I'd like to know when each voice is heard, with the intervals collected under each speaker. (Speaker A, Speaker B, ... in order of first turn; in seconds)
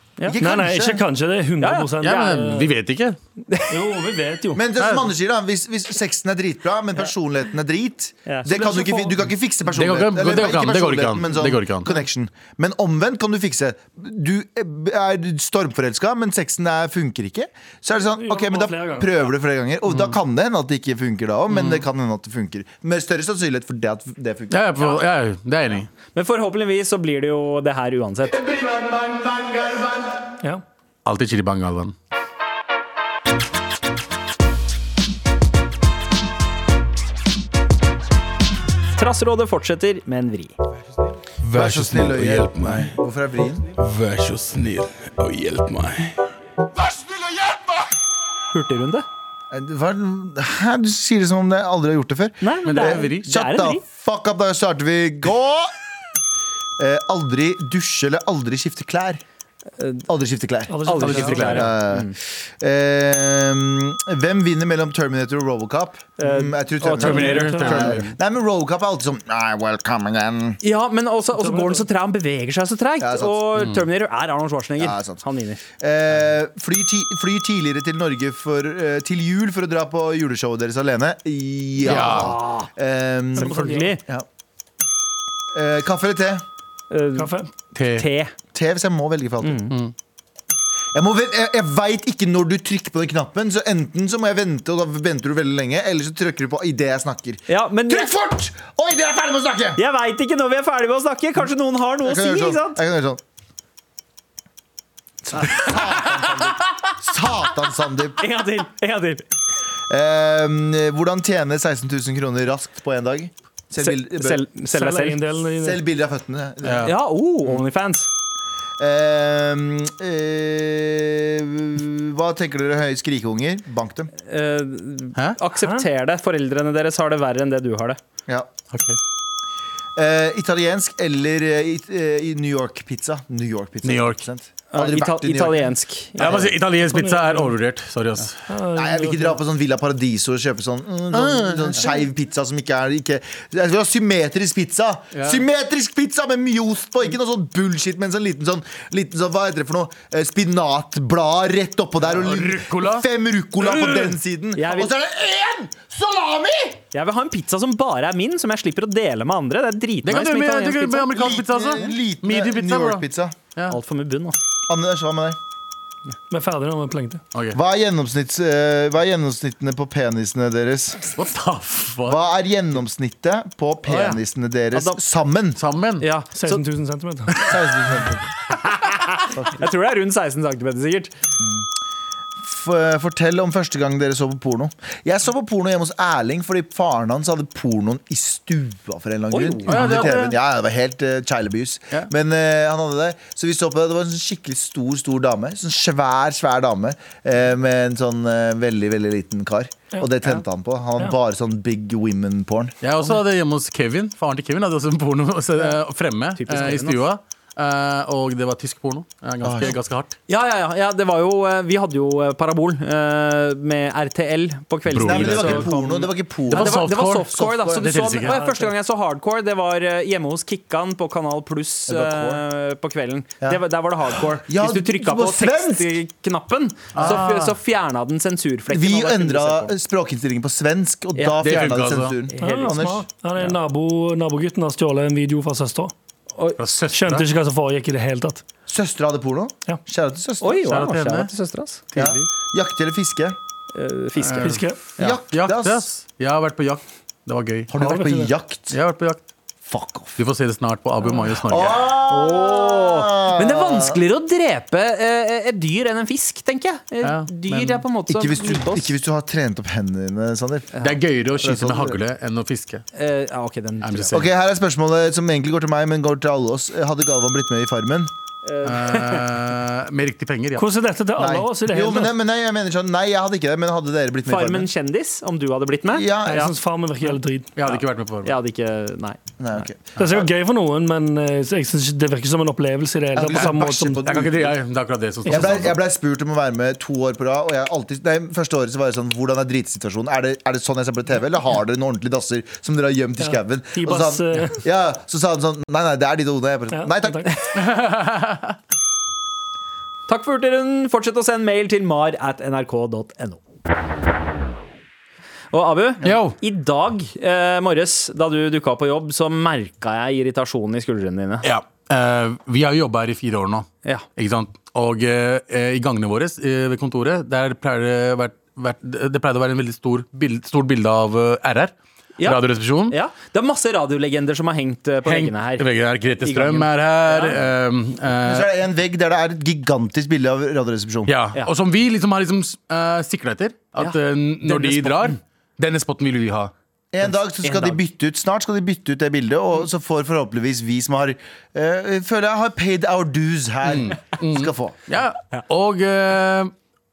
Speaker A: 0.2-1.0, 4.5-24.9, 41.5-43.6, 49.5-55.7, 56.8-59.2, 60.1-70.6, 73.0-73.4, 74.8-75.2, 75.8-84.2, 85.5-86.4, 88.5-89.6, 90.9-99.8, 102.0-103.2, 105.2-108.3, 109.9-114.4, 115.5-116.9, 118.8-124.1, 129.9-135.7, 136.2-136.5, 138.7-156.8, 161.1-163.4, 164.7-165.4, 167.5-171.1, 172.1-175.6, 177.4-178.2, 179.3-179.6, 181.4-181.7, 182.4-202.7, 209.4-209.8, 215.0-218.0, 221.9-222.4, 224.4-226.0, 228.7-233.0, 238.7-240.7, 241.9-243.4, 245.0-245.8, 247.7-248.8, 249.6-250.2, 251.4-254.0, 258.1-260.7, 261.4-262.0, 264.1-268.1, 271.2-274.7, 275.9-276.5, 279.4-280.2, 283.1-284.6, 285.3-297.4, 328.2-331.1, 336.9-344.8
Speaker B: 0.4-2.7, 3.7-4.6, 8.5-9.1, 18.1-19.1, 60.7-61.6, 67.0-67.8, 71.3-71.8, 83.4-83.9, 87.2-87.5, 114.7-115.8, 136.9-137.5, 138.5-139.4, 166.3-167.2, 176.3-177.5, 218.3-218.5, 232.4-235.9, 236.9-238.4, 244.4-244.8, 247.8-248.3, 270.6-272.1, 276.2-277.5, 280.0-284.0, 285.2-285.6, 293.2-294.6, 296.7-297.3
Speaker C: 1.6-2.3, 3.5-3.8, 8.2-8.7, 26.1-28.6, 38.9-40.5, 48.5-49.0, 52.4-53.8, 60.9-62.1, 66.2-67.9, 70.6-75.6, 81.8-82.7, 83.3-84.0, 86.9-87.3, 87.9-88.3, 89.4-89.7, 97.5-98.1, 99.8-102.8, 108.2-109.2, 113.8-115.3, 116.8-118.1, 124.3-128.0, 134.7-136.5, 154.6-154.9, 156.9-161.1, 163.7-164.4, 173.9-174.2, 174.7-175.0, 176.0-176.6, 178.5-181.1, 189.3-190.1, 206.4-207.0, 210.3-229.7, 232.3-232.8, 240.4-241.8, 243.7-245.2, 252.1-258.9, 260.7-261.0, 262.9-264.3, 268.4-269.2, 274.3-276.5, 277.6-279.2, 300.1-303.4, 305.5-311.4, 322.2-325.6, 326.2-327.4, 333.8-335.1, 337.4-337.8
Speaker D: 2.0-3.2, 4.8-5.0, 9.7-11.9, 21.5-21.8, 24.5-25.9, 31.0-31.9, 44.0-45.9, 52.6-53.3, 61.0-61.7, 67.0-68.1, 73.6-73.8, 81.8-82.3, 87.7-88.1, 116.6-116.9, 128.7-129.0, 133.8-134.2, 136.2-138.4, 145.1-145.4, 152.1-153.0, 153.6-154.1, 160.0-163.0, 167.3-167.6, 171.1-172.2, 175.6-176.1, 189.7-190.3, 202.8-210.1, 214.9-215.7, 216.5-218.4, 226.9-227.5, 231.4-232.2, 236.6-237.3, 240.7-241.3, 241.9-242.3, 244.2-244.7, 245.3-247.7, 248.7-249.2, 250.2-251.9, 257.0-257.8, 260.8-262.8, 263.8-264.2, 268.6-270.6, 277.6-278.3, 283.3-285.7, 297.5-298.5, 306.0-306.4, 311.4-323.0, 325.0-328.5, 331.1-336.5, 343.7-346.5
Speaker E: 43.9-46.1